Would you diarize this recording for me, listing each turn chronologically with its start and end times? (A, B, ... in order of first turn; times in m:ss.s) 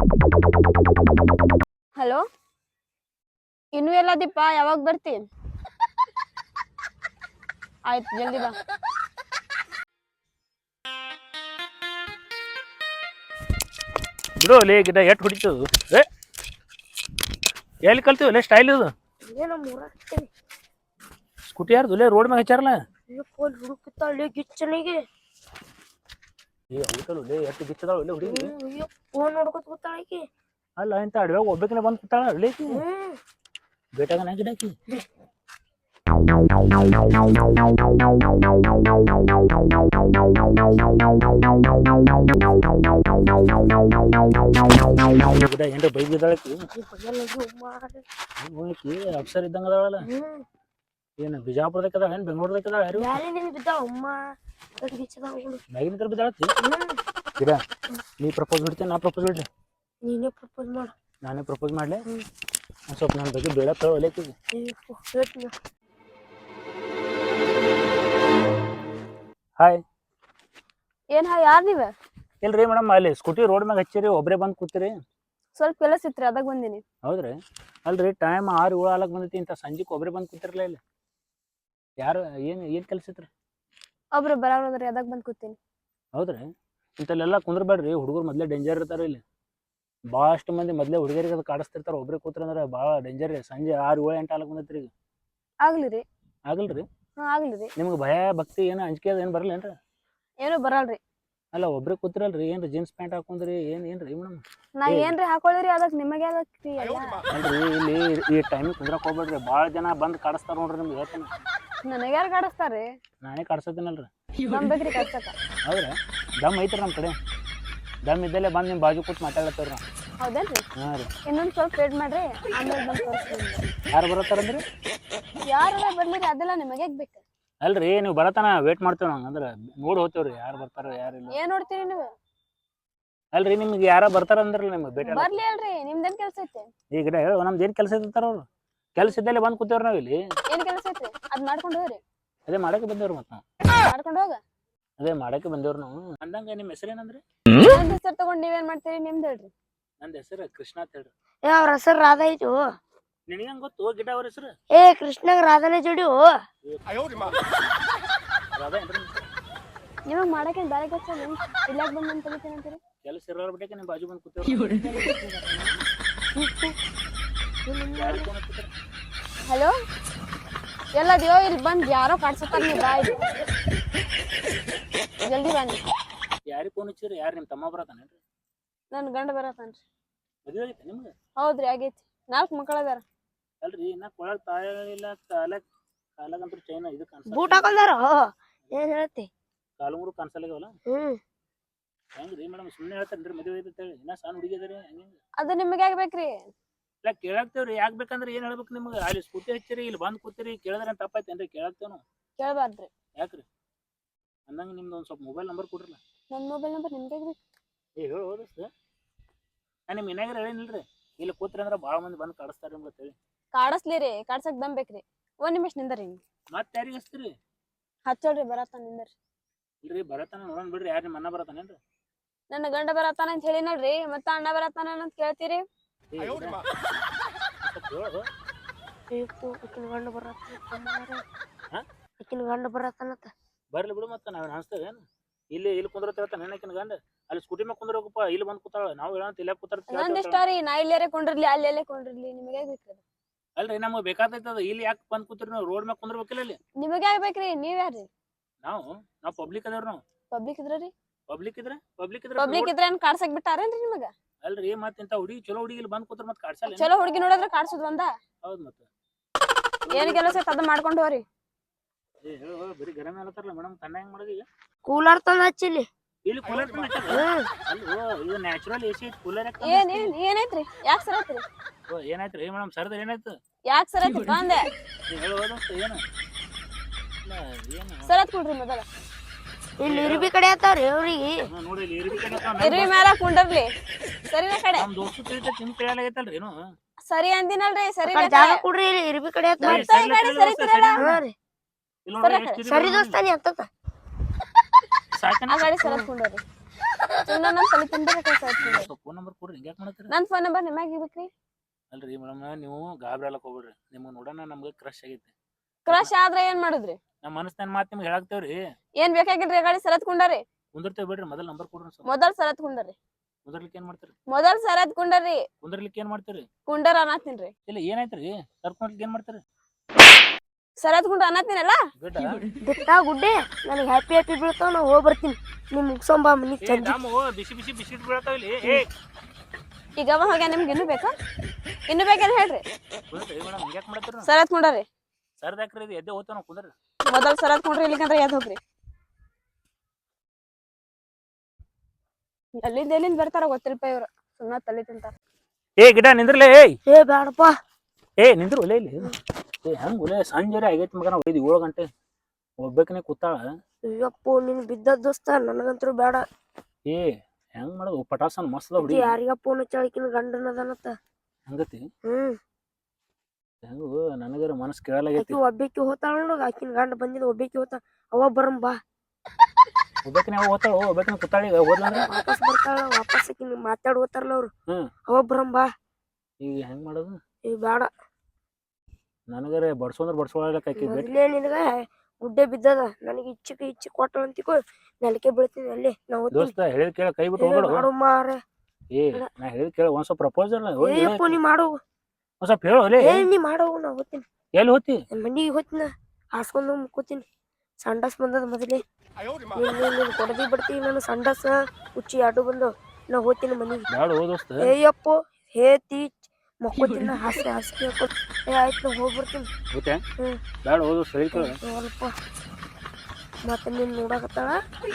0:02.0-0:02.2 A
0:03.8-0:05.2 A
0:07.9-0:08.6 A
0:14.4-0:16.1 B
0:17.8-0:18.9 B
0:19.3-0:20.3 C
0:21.5-0:22.8 B
0:23.1-0:25.0 C
0:26.7-0:28.5 B
0:28.2-0:30.2 C
0:30.8-0:32.8 B
0:32.7-0:33.2 C
0:34.0-0:34.7 B
0:45.2-0:46.7 B
0:46.8-0:48.0 C
0:48.4-0:50.0 B
0:50.1-0:50.4 C
0:51.2-0:53.2 B
0:53.0-0:54.2 C
0:54.8-0:55.6 C
0:55.7-0:56.5 B
0:56.6-0:57.0 C
0:58.2-0:59.5 B
1:00.0-1:00.9 C
1:01.2-1:02.0 B
1:02.9-1:04.4 B
1:04.5-1:05.5 C
1:11.1-1:11.9 A
1:12.4-1:14.9 B
1:15.6-1:16.8 A
1:17.0-1:20.8 B
1:22.0-1:23.3 B
1:24.2-1:25.6 A
1:26.2-1:26.5 B
1:27.0-1:29.2 B
1:30.1-1:34.9 B
1:35.6-1:36.0 A
1:36.5-1:36.9 B
1:37.2-1:37.7 A
1:37.8-1:39.7 B
1:40.4-1:41.0 A
1:41.5-1:45.2 B
1:44.8-1:47.2 A
1:47.3-1:51.3 B
1:51.8-1:52.9 A
1:53.2-1:54.1 B
1:54.5-1:55.3 A
1:55.7-1:57.2 B
1:58.1-1:59.8 B
2:00.2-2:00.6 A
2:00.8-2:01.1 B
2:01.3-2:03.6 A
2:03.9-2:04.6 B
2:05.5-2:07.2 A
2:07.6-2:11.4 B
2:11.3-2:12.1 A
2:13.3-2:15.3 B
2:15.0-2:16.7 A
2:16.9-2:18.4 B
2:19.0-2:20.2 B
2:20.5-2:22.0 A
2:22.5-2:23.4 B
2:23.8-2:24.4 A
2:25.0-2:27.2 B
2:27.6-2:29.5 A
2:30.0-2:31.1 B
2:31.4-2:32.7 C
2:33.3-2:34.5 B
2:34.7-2:36.3 C
2:36.6-2:37.4 B
2:38.6-2:39.3 B
2:40.1-2:42.8 A
2:43.0-2:45.0 B
2:45.1-2:45.7 A
2:46.4-2:46.8 C
2:47.7-2:48.3 C
2:48.0-2:48.7 B
2:49.5-2:49.7 A
2:51.0-2:53.2 A
2:55.2-2:55.8 A
2:56.5-2:58.2 B
2:58.9-2:59.8 A
3:00.5-3:01.1 B
3:01.4-3:03.0 A
3:03.6-3:05.6 B
3:06.2-3:07.7 B
3:07.3-3:09.3 C
3:09.8-3:10.7 B
3:10.9-3:11.2 C
3:12.2-3:15.2 B
3:15.4-3:16.5 A
3:17.0-3:22.0 B
3:22.4-3:22.9 A
3:23.2-3:23.4 B
3:24.5-3:26.0 B
3:26.3-3:27.4 A
3:28.0-3:28.7 B
3:29.9-3:33.2 B
3:33.5-3:36.2 A
3:36.5-3:37.3 B
3:38.1-3:39.1 A
3:39.8-3:41.8 B
3:42.5-3:45.6 A
3:46.1-3:46.6 B
3:47.6-3:48.2 B
3:49.1-3:51.2 C
3:52.2-3:53.3 C
3:53.7-4:00.4 B
3:59.9-4:03.0 A
4:03.6-4:06.6 B
4:06.8-4:08.1 A
4:08.6-4:10.0 B
4:10.3-4:10.9 A
4:11.3-4:12.7 B
4:12.4-4:14.1 A
4:14.4-4:16.9 B
4:16.7-4:18.1 A
4:18.4-4:18.9 B
4:19.9-4:20.4 C
4:19.9-4:21.2 A
4:22.2-4:24.4 B
4:24.8-4:25.9 C
4:26.3-4:30.1 B
4:27.1-4:27.5 C
4:29.6-4:31.4 A
4:31.9-4:33.4 B
4:33.7-4:34.7 A
4:35.1-4:36.0 B
4:37.2-4:38.1 B
4:38.1-4:38.9 A
4:39.8-4:41.4 C
4:39.9-4:40.3 B
4:41.5-4:42.9 B
4:42.6-4:43.7 A
4:44.3-4:44.8 A
4:44.8-4:46.6 B
4:47.0-4:48.6 A
4:48.1-4:49.9 C
4:49.6-4:51.1 A
4:49.6-4:51.1 B
4:51.0-4:51.4 C
4:52.1-4:53.2 B
4:52.2-4:52.6 A
4:52.6-4:53.7 C
4:55.2-4:55.7 B
4:55.5-4:56.4 A
4:57.3-4:58.9 A
4:58.6-5:00.1 B
5:00.1-5:01.3 A
5:01.9-5:05.3 B
5:05.9-5:07.0 A
5:07.2-5:08.6 B
5:09.0-5:10.4 A
5:10.8-5:12.1 B
5:12.1-5:13.0 A
5:13.5-5:14.2 B
5:14.3-5:15.4 A
5:15.6-5:16.5 B
5:16.7-5:17.5 A
5:17.7-5:19.4 B
5:20.8-5:21.8 A
5:22.0-5:22.4 B
5:22.6-5:27.0 C
5:26.6-5:28.9 B
5:30.0-5:31.1 A
5:31.9-5:32.6 A
5:33.1-5:34.3 B
5:34.3-5:34.9 A
5:35.4-5:36.7 B
5:37.1-5:38.6 A
5:42.6-5:45.1 A
5:45.8-5:46.8 B
5:46.9-5:47.5 C
5:48.2-5:49.1 B
5:49.6-5:51.9 B
5:52.6-5:53.4 B
5:53.9-5:56.2 C
5:56.9-5:59.2 B
5:58.8-6:01.0 C
6:01.5-6:01.8 B
6:02.1-6:02.4 C
6:03.6-6:05.4 B
6:05.2-6:08.8 C
6:10.0-6:12.1 B
6:12.1-6:14.5 C
6:15.1-6:15.7 C
6:16.4-6:17.2 B
6:17.5-6:17.9 C
6:19.3-6:21.1 B
6:20.7-6:26.5 C
6:26.3-6:27.9 B
6:27.4-6:28.4 C
6:29.0-6:31.4 B
6:30.8-6:31.8 C
6:32.4-6:33.3 B
6:33.0-6:34.2 C
6:34.6-6:35.0 B
6:35.1-6:37.2 C
6:37.8-6:38.8 C
6:39.5-6:43.9 C
6:43.9-6:44.7 B
6:44.6-6:49.5 C
6:49.7-6:50.0 B
6:50.6-6:51.6 B
6:51.3-6:52.2 C
6:53.4-6:54.6 C